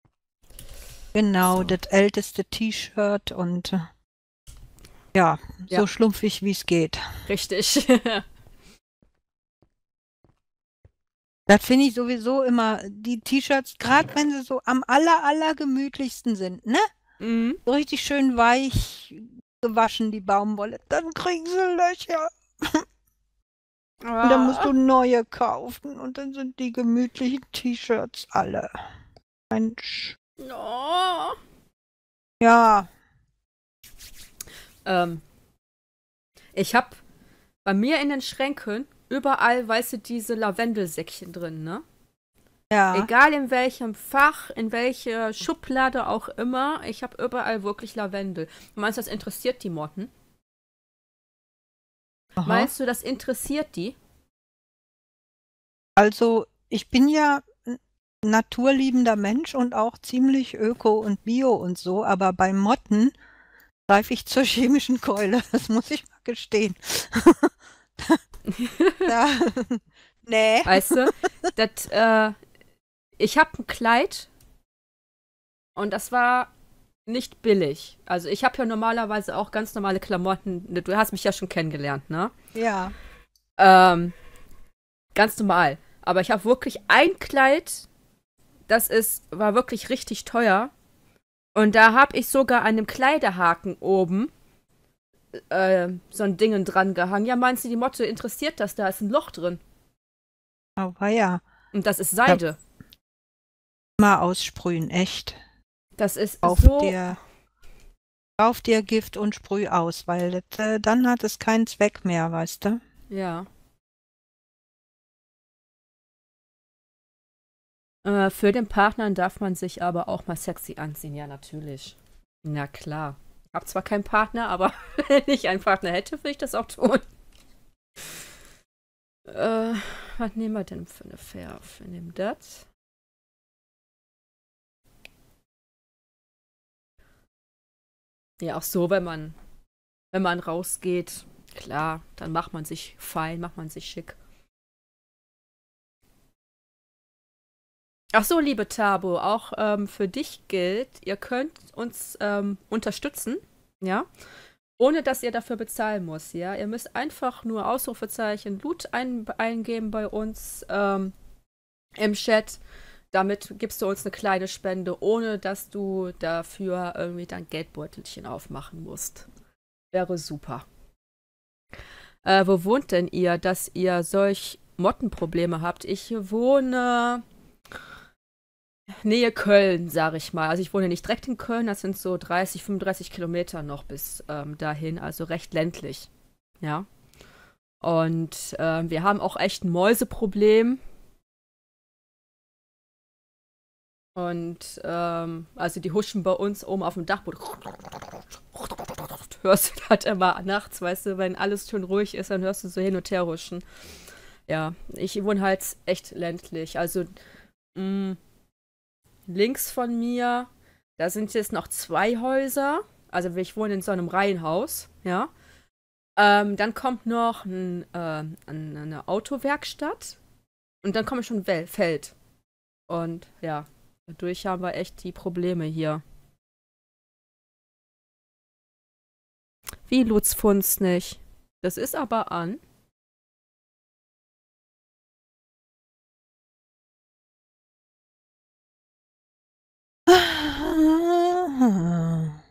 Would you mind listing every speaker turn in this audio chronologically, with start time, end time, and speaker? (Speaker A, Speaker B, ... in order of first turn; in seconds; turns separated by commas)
Speaker A: 1.1-3.9, Speaker B: 1.5-1.8, Speaker A: 5.1-7.2, Speaker B: 7.3-8.2, Speaker A: 11.5-16.9, Speaker B: 17.2-17.6, Speaker A: 17.7-22.8, Speaker B: 24.0-24.7, Speaker A: 24.2-28.8, Speaker A: 29.5-30.2, Speaker B: 30.4-31.4, Speaker A: 32.4-32.9, Speaker B: 34.9-35.2, Speaker B: 36.5-37.0, Speaker B: 37.6-41.8, Speaker A: 42.7-43.1, Speaker B: 42.9-50.1, Speaker A: 52.4-52.7, Speaker B: 52.4-54.0, Speaker A: 56.0-63.1, Speaker A: 63.9-68.2, Speaker B: 68.5-69.1, Speaker A: 69.1-71.0, Speaker B: 70.7-72.3, Speaker B: 73.2-74.3, Speaker B: 75.8-76.5, Speaker B: 77.1-82.3, Speaker A: 82.5-83.0, Speaker B: 83.6-84.2, Speaker B: 85.1-87.9, Speaker B: 88.7-90.7, Speaker B: 91.5-94.3, Speaker B: 95.3-99.6, Speaker A: 100.8-101.4, Speaker B: 101.7-102.6, Speaker A: 104.0-105.4, Speaker B: 106.0-107.1, Speaker A: 106.4-107.2, Speaker A: 108.4-112.8, Speaker B: 113.1-113.5, Speaker B: 118.0-127.0, Speaker B: 129.3-132.7, Speaker B: 138.4-139.4, Speaker B: 140.1-144.2, Speaker B: 148.1-154.1, Speaker B: 154.8-161.1, Speaker B: 162.0-162.6, Speaker B: 163.1-169.3, Speaker B: 169.9-170.7, Speaker B: 172.2-177.2, Speaker B: 179.0-186.1, Speaker B: 186.6-186.9, Speaker B: 187.8-190.8, Speaker B: 194.2-203.6, Speaker B: 204.5-207.1, Speaker B: 207.8-208.2, Speaker B: 209.3-215.3, Speaker B: 216.2-220.2, Speaker B: 220.8-222.2, Speaker B: 222.9-226.0, Speaker B: 229.9-232.6, Speaker A: 240.1-242.4